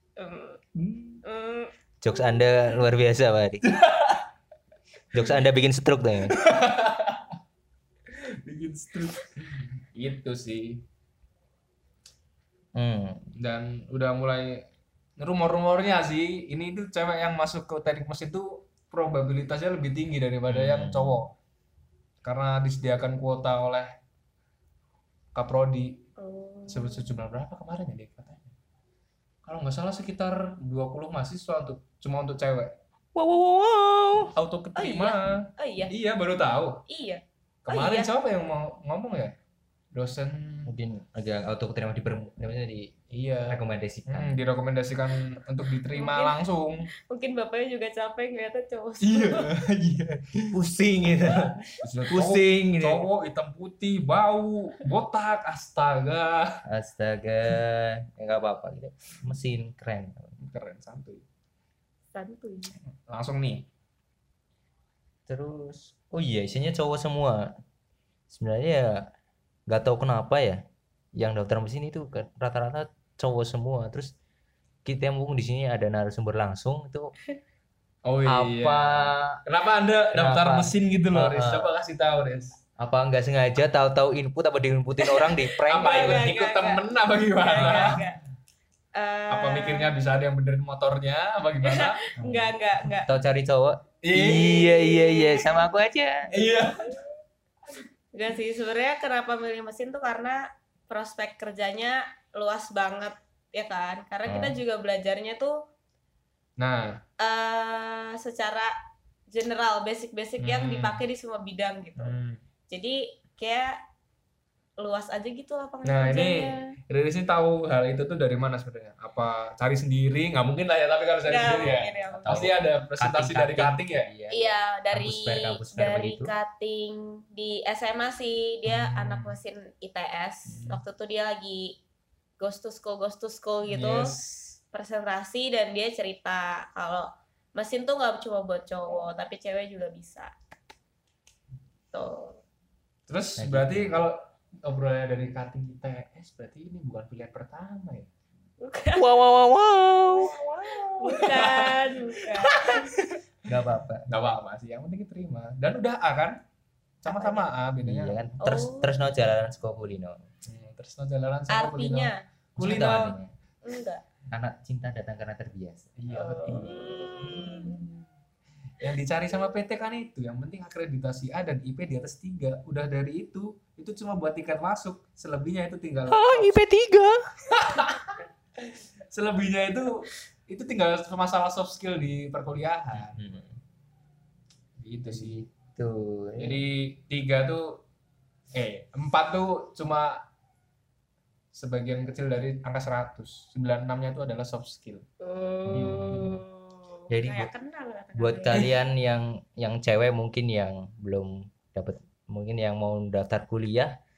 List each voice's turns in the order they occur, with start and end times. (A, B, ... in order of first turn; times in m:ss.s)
0:00.2-0:00.6 A
0:00.8-0:01.2 B
0:01.2-0:01.7 A
0:02.0-0:03.6 C
0:03.7-0:04.2 B
0:05.1-0:06.4 C
0:06.3-0:07.3 B
0:08.1-0:10.8 B
0:12.8-0:13.3 C
0:13.4-0:14.6 B
0:15.2-0:21.3 B
0:20.5-0:21.2 C
0:22.2-0:23.9 B
0:25.4-0:26.0 B
0:26.2-0:27.1 A
0:26.7-0:28.5 B
0:29.4-0:32.8 B
0:33.2-0:34.3 C
0:34.4-0:36.8 B
0:34.8-0:35.9 A
0:36.9-0:38.1 A
0:37.7-0:39.3 B
0:39.9-0:40.8 B
0:40.7-0:42.9 C
0:43.1-0:46.9 B
0:43.5-0:44.4 C
0:45.9-0:46.4 A
0:47.1-0:49.5 A
0:49.0-0:50.5 B
0:50.5-0:53.1 C
0:51.8-0:56.6 B
0:56.7-1:00.3 C
1:00.4-1:01.2 B
1:02.1-1:02.7 A
1:03.1-1:03.6 B
1:05.3-1:07.5 C
1:08.3-1:09.1 C
1:09.7-1:10.6 C
1:11.2-1:14.1 C
1:14.8-1:17.1 C
1:18.0-1:22.6 B
1:18.3-1:19.4 C
1:20.1-1:21.7 C
1:22.8-1:26.3 C
1:25.0-1:26.9 A
1:25.7-1:28.0 B
1:27.4-1:28.2 A
1:27.6-1:28.0 C
1:29.0-1:29.9 A
1:29.3-1:32.0 B
1:31.6-1:33.1 A
1:32.2-1:36.3 C
1:34.0-1:35.1 B
1:34.9-1:35.6 A
1:36.3-1:37.0 B
1:38.1-1:45.6 A
1:44.3-1:44.6 C
1:46.6-1:47.0 B
1:47.2-1:48.7 A
1:49.3-1:52.2 A
1:50.4-1:51.0 B
1:52.0-1:52.4 B
1:52.7-1:53.8 A
1:54.8-1:56.7 A
1:55.8-2:04.1 B
2:01.3-2:02.5 A
2:02.2-2:06.3 C
2:04.3-2:11.8 A
2:08.7-2:09.4 B
2:10.5-2:10.8 B
2:12.4-2:14.2 A
2:13.7-2:14.5 B
2:14.7-2:20.3 A
2:21.9-2:22.4 A
2:23.1-2:28.1 B
2:23.4-2:24.1 C
2:28.6-2:29.1 A
2:29.0-2:31.2 C
2:30.7-2:33.2 B
2:31.0-2:32.9 A
2:33.5-2:34.4 C
2:34.1-2:36.4 B
2:37.0-2:38.2 B
2:37.1-2:37.5 A
2:37.8-2:40.3 C
2:38.4-2:39.0 A
2:40.5-2:43.2 B
2:41.5-2:42.2 A
2:42.6-2:43.3 C
2:43.6-2:44.0 A
2:44.3-2:46.0 C
2:46.0-2:48.0 B
2:46.1-2:47.8 A
2:48.8-2:56.6 B
2:56.1-2:57.3 C
2:57.5-3:03.4 B
3:02.9-3:03.6 C
3:04.8-3:05.4 B
3:05.1-3:06.6 C
3:06.4-3:07.8 B
3:08.6-3:10.2 B
3:11.5-3:15.0 B
3:15.2-3:18.7 A
3:15.7-3:16.4 C
3:15.7-3:16.3 B
3:17.1-3:17.5 C
3:18.2-3:24.0 C